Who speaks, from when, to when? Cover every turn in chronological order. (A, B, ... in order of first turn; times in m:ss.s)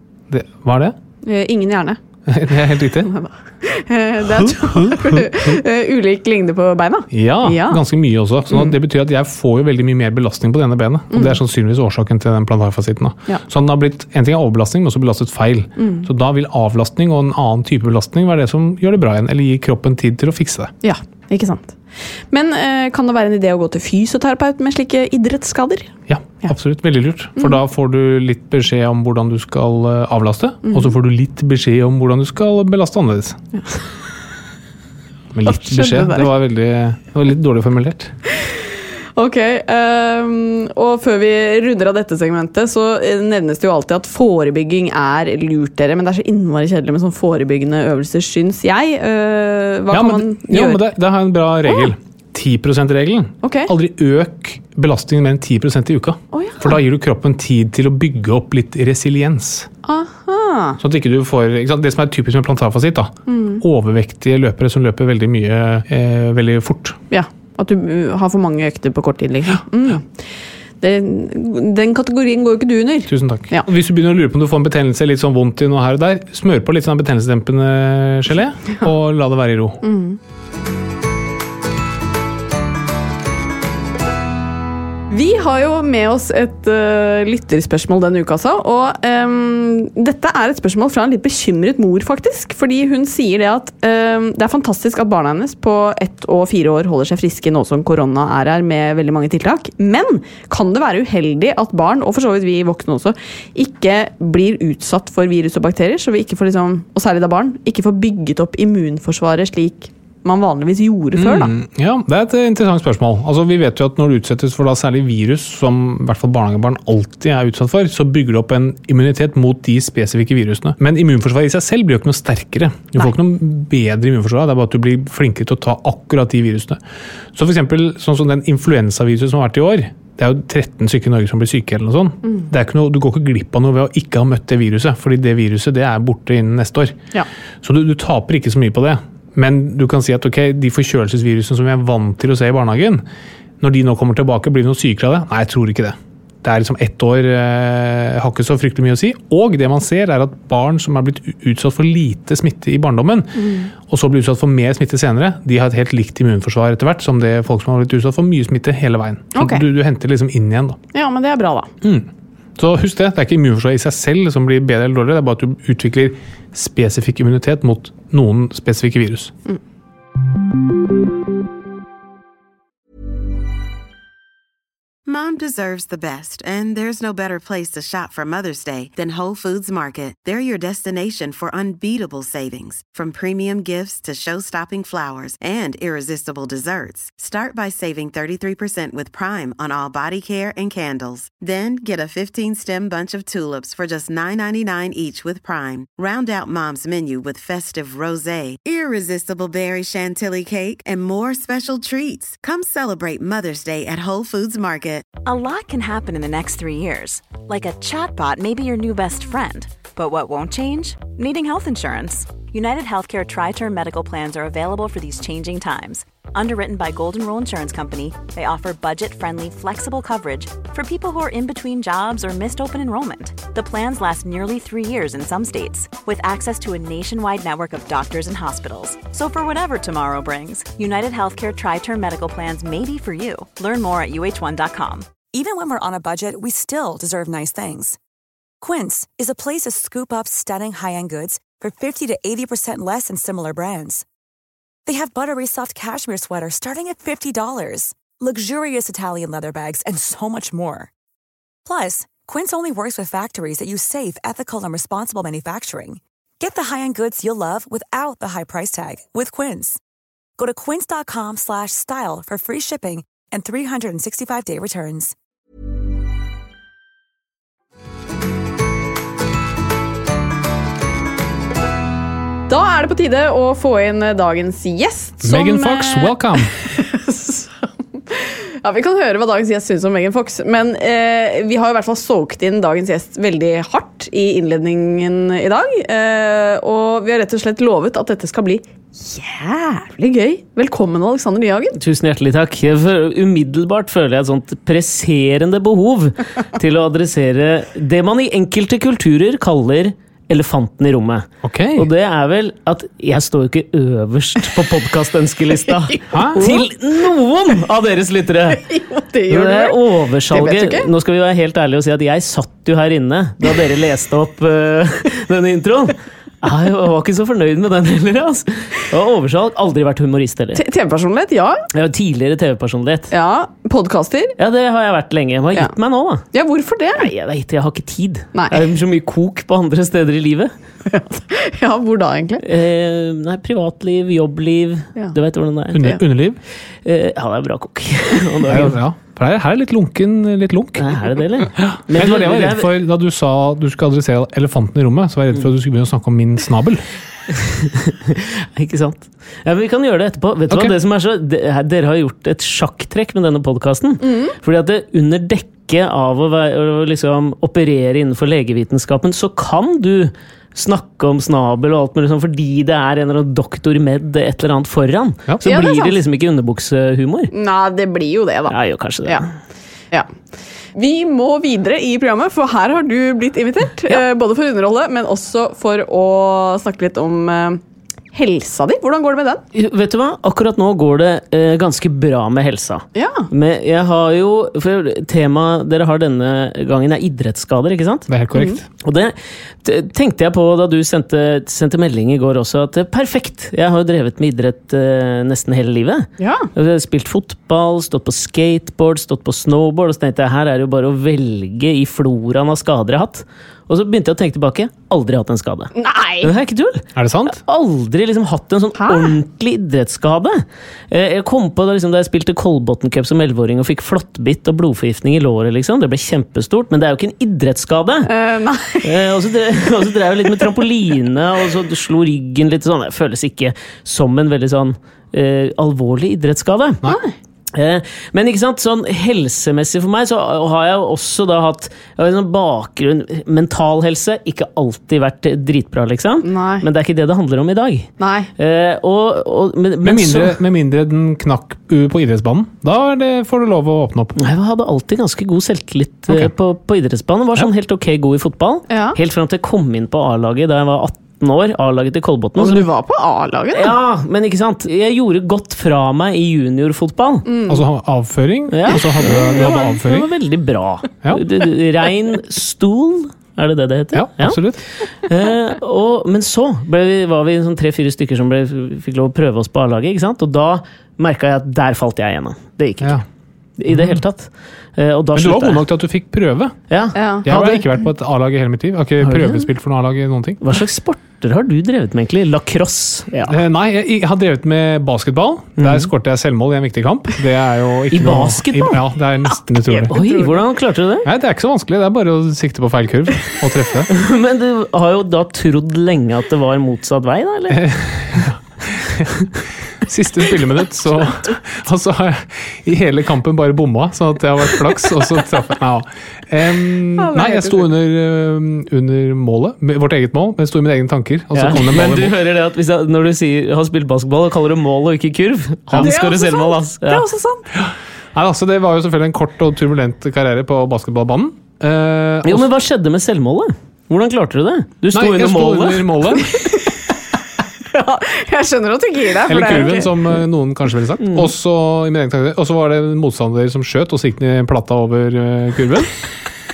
0:00.3-0:01.0 A
0:01.2-0:02.0 B
0:02.3-0:03.1 A
0:03.0-0:07.8 B
0:04.3-0:05.6 A
0:07.1-0:20.7 A
0:11.1-0:11.4 B
0:15.8-0:16.1 B
0:20.8-0:21.8 B
0:22.3-0:25.9 B
0:26.1-0:33.4 A
0:35.3-0:38.1 A
0:35.4-0:36.3 B
0:39.2-0:50.8 B
0:49.9-0:59.7 A
0:53.4-0:53.7 B
0:56.3-0:56.8 B
0:59.8-1:00.8 B
1:00.8-1:07.0 A
1:03.3-1:03.6 B
1:07.1-1:10.1 B
1:10.8-1:13.7 B
1:13.1-1:19.8 A
1:19.8-1:20.2 B
1:25.1-1:51.5 B
1:51.2-2:06.8 A
2:07.3-2:17.0 A
2:17.6-2:23.0 A
2:23.6-2:40.8 A
2:33.4-2:33.7 B
2:39.3-2:39.6 B
2:40.9-2:41.7 B
2:41.8-2:49.3 A
2:55.1-3:25.2 C
3:25.2-3:55.2 D
3:55.2-3:58.0 E
3:58.6-4:04.0 E
4:04.9-4:10.9 E
4:11.6-4:19.8 E
4:20.4-4:25.2 E
4:32.5-4:51.8 B
4:35.2-4:36.5 A
4:51.8-5:08.6 F
5:01.4-5:01.9 A
5:06.1-5:06.6 A
5:08.5-5:10.9 B
5:09.3-5:20.6 F
5:20.6-5:21.7 B
5:21.7-5:23.1 F
5:23.1-5:24.4 B
5:24.4-5:26.2 F
5:26.3-5:27.1 B
5:27.0-5:30.5 F
5:28.3-5:28.6 B
5:30.9-5:32.4 B
5:32.4-5:36.0 F
5:35.7-5:36.4 A
5:36.8-5:38.8 F
5:38.5-5:41.0 A
5:40.8-5:42.7 F
5:41.6-5:46.8 A
5:47.3-6:07.3 F
5:54.0-5:54.4 B
6:05.4-6:06.0 B
6:07.3-6:09.3 B
6:08.5-6:09.3 F
6:10.8-6:17.6 B
6:18.1-6:19.4 B
6:19.5-6:28.1 F
6:23.0-6:23.3 B
6:28.1-6:28.7 A
6:28.3-6:28.6 B
6:28.8-6:58.1 F
6:36.2-6:36.5 B
6:45.8-6:46.3 B
6:47.0-6:47.4 A
6:48.8-6:49.2 B
6:58.0-6:59.1 B
6:58.8-7:06.8 F
7:06.9-7:07.1 B
7:07.6-7:20.4 F
7:16.2-7:16.7 B
7:18.0-7:18.3 B
7:19.8-7:24.2 A
7:24.2-7:32.7 F
7:28.7-7:29.0 B
7:32.4-7:33.8 B
7:33.5-7:37.3 F
7:37.2-7:37.6 B
7:37.5-7:40.1 A
7:38.5-7:44.4 F
7:43.9-7:44.6 A
7:45.0-7:53.0 F
7:53.6-7:55.6 F
7:53.7-7:54.0 A
7:55.2-7:56.6 A
7:56.7-7:57.7 F
7:57.0-7:57.3 B
7:57.2-8:00.4 A
7:59.0-7:59.5 F
8:00.4-8:03.4 F
8:03.3-8:10.0 A
8:05.6-8:05.9 F
8:07.9-8:08.8 F
8:09.7-8:10.4 B
8:09.9-8:11.1 F
8:11.0-8:13.9 A
8:13.9-8:17.6 F
8:17.5-8:19.3 A
8:19.8-8:32.2 A
8:27.0-8:27.7 B
8:31.3-8:37.0 F
8:35.7-8:36.0 A
8:35.8-8:37.5 B
8:37.6-8:42.5 A
8:42.2-8:46.0 F
8:44.9-8:46.5 A
8:47.7-8:49.9 B
8:49.3-8:55.9 A
8:51.0-8:51.3 F